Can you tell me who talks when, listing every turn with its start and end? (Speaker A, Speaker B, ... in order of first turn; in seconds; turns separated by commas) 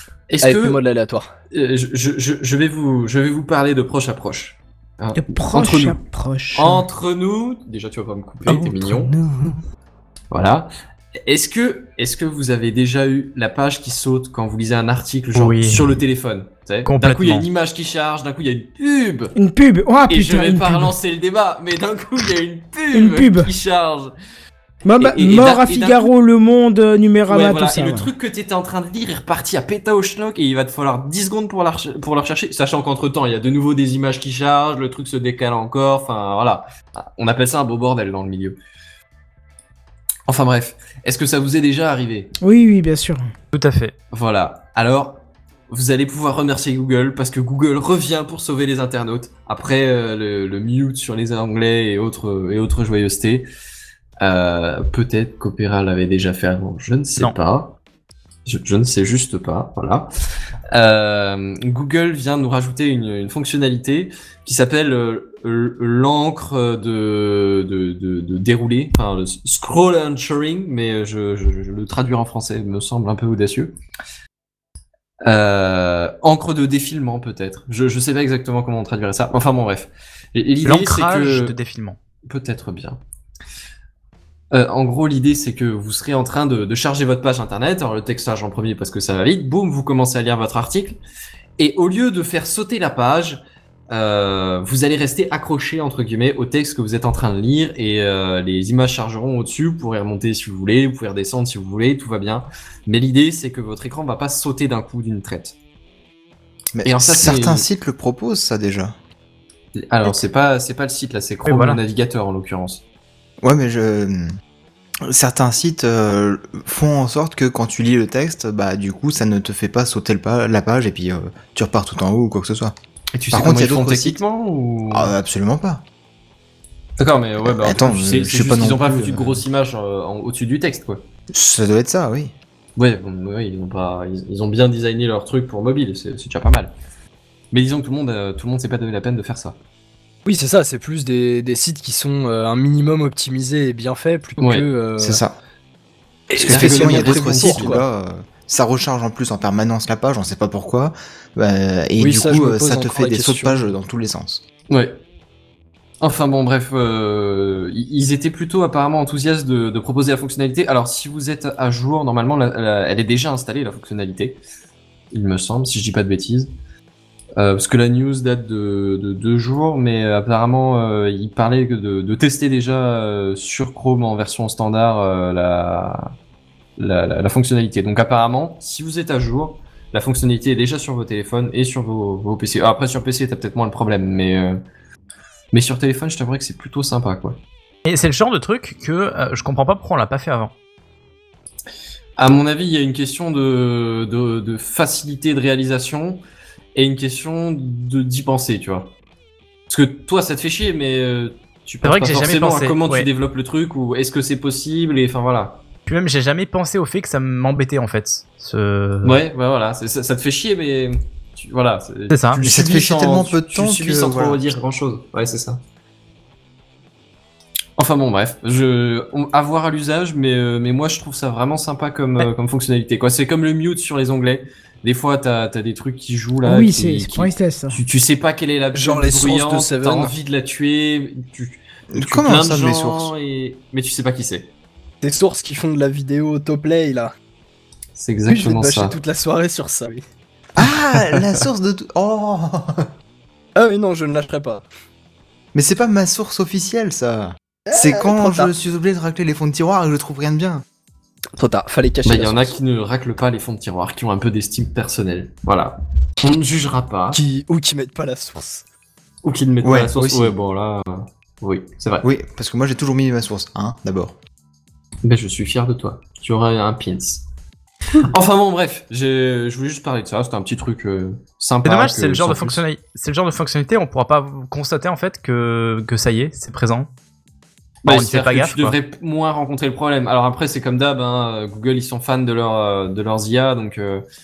Speaker A: 0.3-0.8, Speaker B: 0.4-1.3, Speaker A: 1.5-6.0, Speaker C: 5.2-6.8, Speaker A: 6.5-9.1, Speaker C: 9.2-9.5, Speaker A: 10.3-10.7, Speaker A: 11.2-19.3, Speaker D: 15.3-16.0, Speaker D: 16.9-17.5, Speaker C: 19.4-20.9, Speaker A: 20.1-24.1, Speaker C: 22.9-23.5, Speaker C: 24.8-28.1, Speaker A: 25.0-26.1, Speaker A: 27.3-38.6, Speaker A: 40.3-42.3, Speaker C: 42.4-43.3, Speaker D: 43.5-43.9, Speaker A: 44.1-53.5, Speaker A: 54.2-57.8, Speaker A: 58.5-60.1, Speaker A: 60.7-73.8, Speaker A: 75.2-81.5, Speaker D: 80.6-82.0, Speaker A: 82.2-83.0, Speaker A: 84.5-91.0, Speaker A: 91.6-105.6, Speaker E: 106.7-108.9, Speaker A: 106.8-107.7, Speaker A: 109.7-112.8, Speaker D: 111.5-111.8, Speaker E: 113.4-114.3, Speaker E: 115.0-122.7, Speaker A: 123.1-125.1, Speaker E: 123.3-124.2, Speaker E: 124.9-125.8, Speaker A: 127.0-131.0, Speaker E: 127.4-129.4, Speaker E: 131.3-132.3, Speaker A: 132.8-136.7, Speaker A: 137.5-139.6, Speaker B: 140.2-145.2, Speaker A: 144.4-144.7, Speaker E: 145.0-145.3, Speaker B: 146.3-147.8, Speaker E: 146.3-154.4, Speaker A: 146.3-147.8, Speaker B: 152.0-153.6, Speaker A: 154.7-155.0, Speaker A: 156.0-164.4, Speaker A: 165.1-166.5, Speaker A: 167.4-176.1, Speaker A: 176.8-184.6, Speaker A: 185.5-187.4, Speaker D: 187.8-190.5, Speaker A: 192.2-196.2, Speaker A: 196.7-198.9, Speaker A: 199.7-205.6, Speaker D: 201.8-203.1, Speaker D: 205.9-209.2, Speaker A: 209.0-215.6, Speaker D: 212.1-212.4, Speaker E: 212.4-214.4, Speaker A: 217.8-234.5, Speaker C: 226.4-227.8, Speaker B: 228.7-230.1, Speaker E: 231.9-233.1, Speaker B: 235.0-237.1, Speaker A: 237.9-239.0, Speaker B: 238.3-240.0, Speaker E: 240.6-242.9, Speaker B: 241.0-241.3, Speaker B: 243.6-244.6, Speaker E: 245.5-250.6, Speaker B: 247.7-248.5, Speaker B: 251.4-252.6, Speaker A: 252.0-257.2, Speaker B: 257.1-258.6, Speaker A: 259.2-262.1, Speaker E: 259.6-260.3, Speaker E: 262.0-264.1, Speaker A: 265.0-267.2, Speaker A: 267.9-272.6, Speaker D: 271.6-276.9, Speaker A: 277.8-284.0, Speaker D: 277.8-278.8